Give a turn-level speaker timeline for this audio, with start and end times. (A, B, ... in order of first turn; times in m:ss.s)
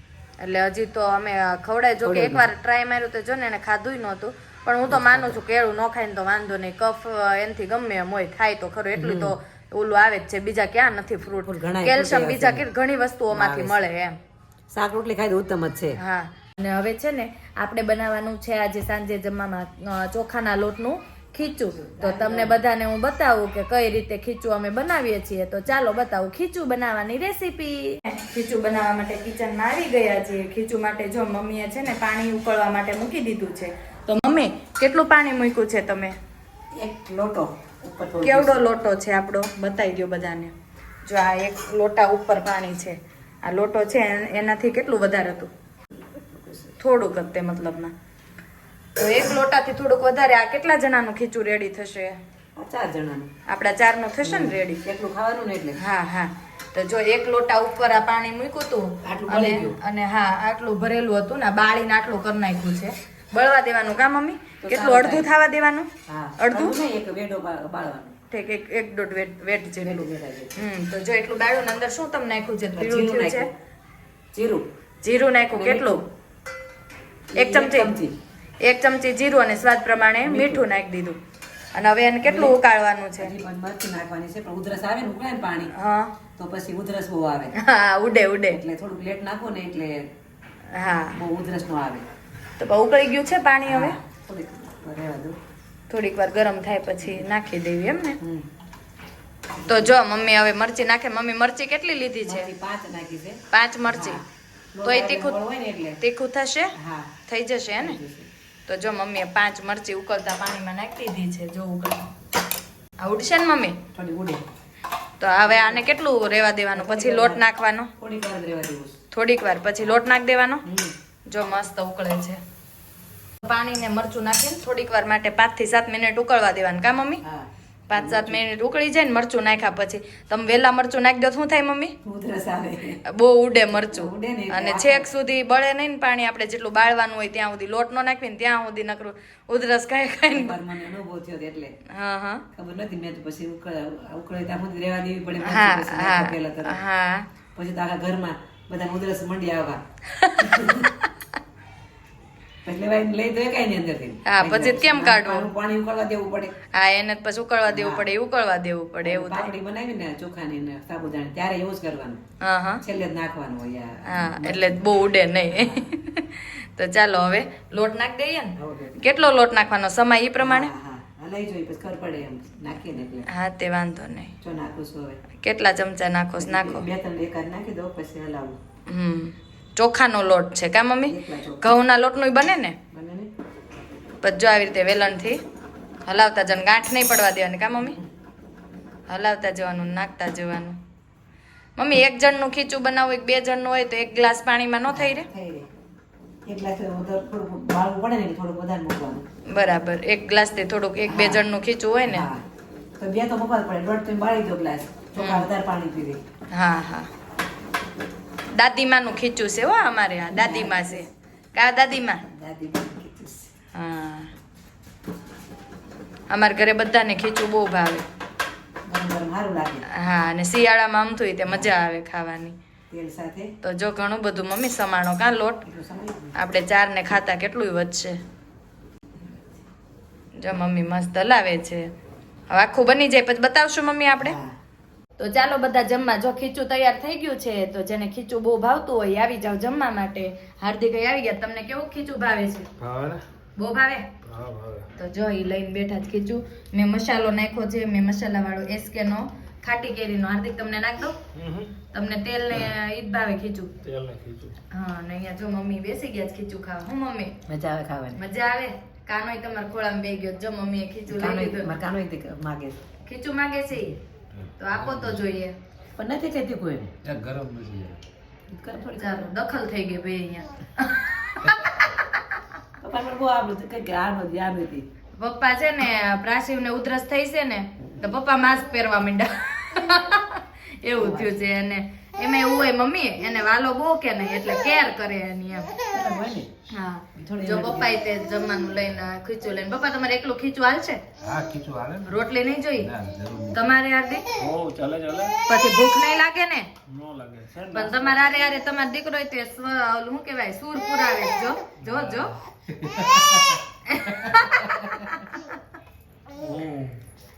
0:00.4-0:14.1 A
0:02.0-0:02.5 B
0:04.9-0:05.4 B
0:09.0-0:09.3 B
0:11.4-0:12.6 B
0:13.3-0:13.8 B
0:14.7-0:16.0 B
0:16.0-0:36.1 A
0:21.7-0:22.6 B
0:36.8-0:38.6 B
0:38.2-0:40.5 A
0:41.0-0:45.5 A
0:45.9-0:46.8 B
0:46.8-0:47.9 A
0:49.0-0:52.2 A
0:52.6-0:53.3 B
0:53.5-0:54.8 A
0:54.2-0:55.8 B
0:55.8-1:05.9 A
0:59.0-0:59.8 B
1:04.6-1:05.3 B
1:06.1-1:08.2 B
1:06.4-1:06.8 A
1:08.3-1:13.5 A
1:09.8-1:10.5 B
1:12.7-1:13.5 B
1:14.3-1:14.6 B
1:15.0-1:16.0 A
1:15.5-1:16.0 B
1:17.3-1:18.0 A
1:17.3-1:18.1 B
1:18.6-1:21.2 A
1:20.2-1:20.6 B
1:21.7-1:23.3 A
1:22.2-1:22.6 B
1:23.2-1:25.7 B
1:25.7-1:26.1 A
1:26.4-1:27.5 B
1:27.5-1:28.6 A
1:28.5-1:30.1 B
1:30.7-1:31.2 A
1:31.1-1:32.1 B
1:32.6-1:34.0 A
1:33.6-1:35.4 B
1:35.9-1:38.2 A
1:38.2-1:38.5 B
1:39.6-1:39.9 B
1:39.7-1:42.5 A
1:42.2-1:46.0 B
1:43.5-1:44.2 A
1:44.8-1:45.4 A
1:46.0-1:46.7 A
1:46.8-1:47.1 B
1:47.3-1:48.0 A
1:47.8-1:48.3 B
1:48.7-1:52.0 A
1:53.0-1:53.8 A
1:53.9-1:54.4 B
1:55.2-1:57.9 A
1:55.4-1:55.9 B
1:56.7-1:57.4 B
1:58.0-1:59.0 B
1:59.1-2:00.6 A
2:00.6-2:00.9 B
2:01.3-2:02.4 A
2:03.4-2:07.2 A
2:07.2-2:08.4 B
2:07.9-2:11.9 A
2:12.0-2:13.0 B
2:13.0-2:20.6 A
2:13.8-2:15.1 B
2:20.3-2:21.8 B
2:21.9-2:22.4 A
2:22.5-2:26.8 B
2:25.4-2:27.3 A
2:27.5-2:29.8 B
2:30.1-2:31.1 A
2:30.4-2:30.9 B
2:32.6-2:36.5 B
2:34.2-2:35.5 A
2:36.7-2:39.5 A
2:37.7-2:38.1 B
2:39.0-2:42.2 B
2:42.4-2:42.8 A
2:42.8-2:44.8 B
2:44.1-2:50.7 A
2:45.5-2:45.9 B
2:48.6-2:49.0 B
2:50.4-2:53.2 B
2:53.3-2:54.3 A
2:54.4-2:55.2 B
2:55.4-2:56.8 A
2:56.4-2:58.6 B
2:58.9-3:02.8 A
3:01.0-3:01.7 B
3:02.9-3:03.3 B
3:04.2-3:05.4 A
3:06.0-3:08.0 A
3:09.1-3:10.8 A
3:11.8-3:15.3 A
3:14.9-3:15.7 B
3:16.4-3:19.2 B
3:19.5-3:22.3 A
3:21.1-3:21.4 B
3:22.1-3:22.4 B
3:23.0-3:26.2 B
3:25.2-3:25.5 A
3:26.5-3:27.1 A
3:28.5-3:32.2 A
3:30.3-3:31.0 B
3:32.3-3:33.5 B
3:33.7-3:34.3 A
3:36.3-3:38.0 A
3:38.9-3:39.8 B
3:39.9-3:42.5 A
3:41.5-3:41.7 B
3:42.9-3:43.5 B
3:43.6-3:45.6 A
3:45.6-3:46.3 B
3:46.4-3:48.2 A
3:50.4-3:51.9 A
3:52.5-3:54.4 A
3:54.2-3:54.5 B
3:55.2-4:02.7 A
4:02.8-4:03.2 C
4:03.6-4:04.0 A
4:04.2-4:04.9 C
4:05.0-4:11.1 A
4:11.4-4:11.7 C
4:11.9-4:13.7 A
4:13.8-4:14.5 C
4:14.7-4:17.3 A
4:17.5-4:18.2 B
4:18.1-4:21.7 A
4:21.1-4:22.8 B
4:23.0-4:24.0 A
4:24.4-4:25.1 C
4:24.6-4:25.5 A
4:26.0-4:26.9 B
4:27.0-4:28.0 C
4:28.5-4:29.3 B
4:28.9-4:32.4 A
4:32.8-4:34.8 B
4:35.2-4:45.7 A
4:41.0-4:41.4 B
4:45.9-4:46.5 B
4:46.7-4:51.0 A
4:47.1-4:48.0 B
4:51.2-4:52.2 C
4:52.1-4:52.9 A
4:52.8-4:53.6 C
4:53.5-4:54.2 A
4:54.4-4:55.4 C
4:55.5-4:56.7 A
4:56.9-4:58.2 C
4:57.7-5:02.4 A
5:01.8-5:03.5 C
5:03.8-5:05.4 A
5:06.4-5:07.0 C